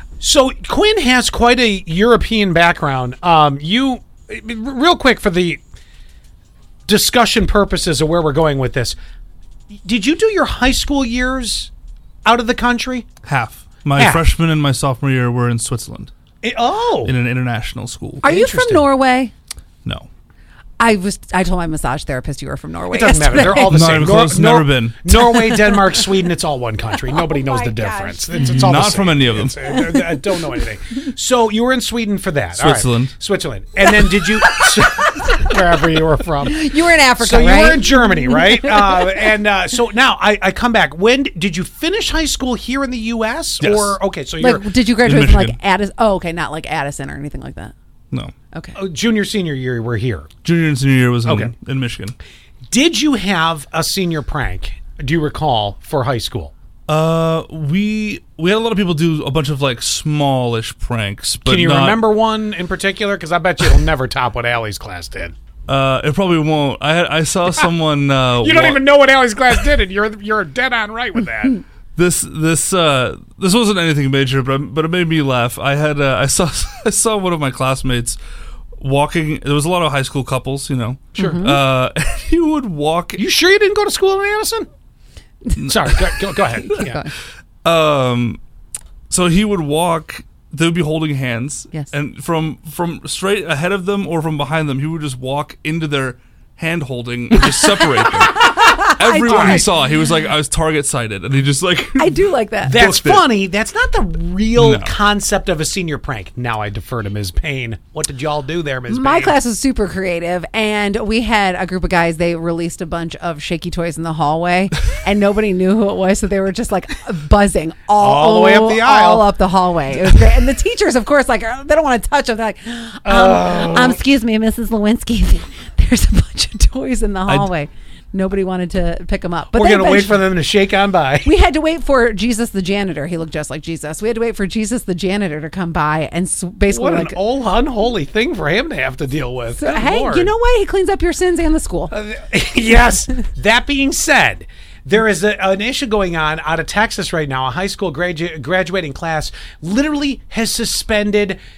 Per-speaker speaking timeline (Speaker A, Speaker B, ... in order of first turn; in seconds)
Speaker A: 0.2-5.6, 6.9-8.9, 9.8-11.7, 12.2-13.0, 13.9-14.2, 16.4-17.1, 18.2-18.9, 22.9-36.6, 37.2-44.7, 48.7-50.3, 51.2-51.5, 52.7-56.5, 61.4-65.3, 68.4-71.6, 83.2-84.7, 85.7-87.0, 99.2-99.7, 102.7-109.4, 118.0-119.3, 123.0-124.0, 129.5-131.4, 136.7-140.3, 141.9-151.4
Speaker B: 13.2-16.1, 17.0-18.2, 23.7-25.2, 28.4-29.5, 32.5-33.1, 43.6-44.0, 45.0-45.5, 50.4-52.1, 56.9-62.0, 65.7-68.8, 71.9-78.2, 78.8-83.2, 85.6-86.6, 87.6-88.4, 89.1-103.2, 104.6-104.9
Speaker C: 18.2-19.3, 20.8-23.9, 25.4-26.1, 27.1-28.4, 36.4-39.2, 44.4-47.7, 48.5-48.8, 81.2-81.6, 86.8-87.1, 97.6-99.6, 102.0-102.8, 108.9-130.3, 131.2-137.2, 139.5-141.9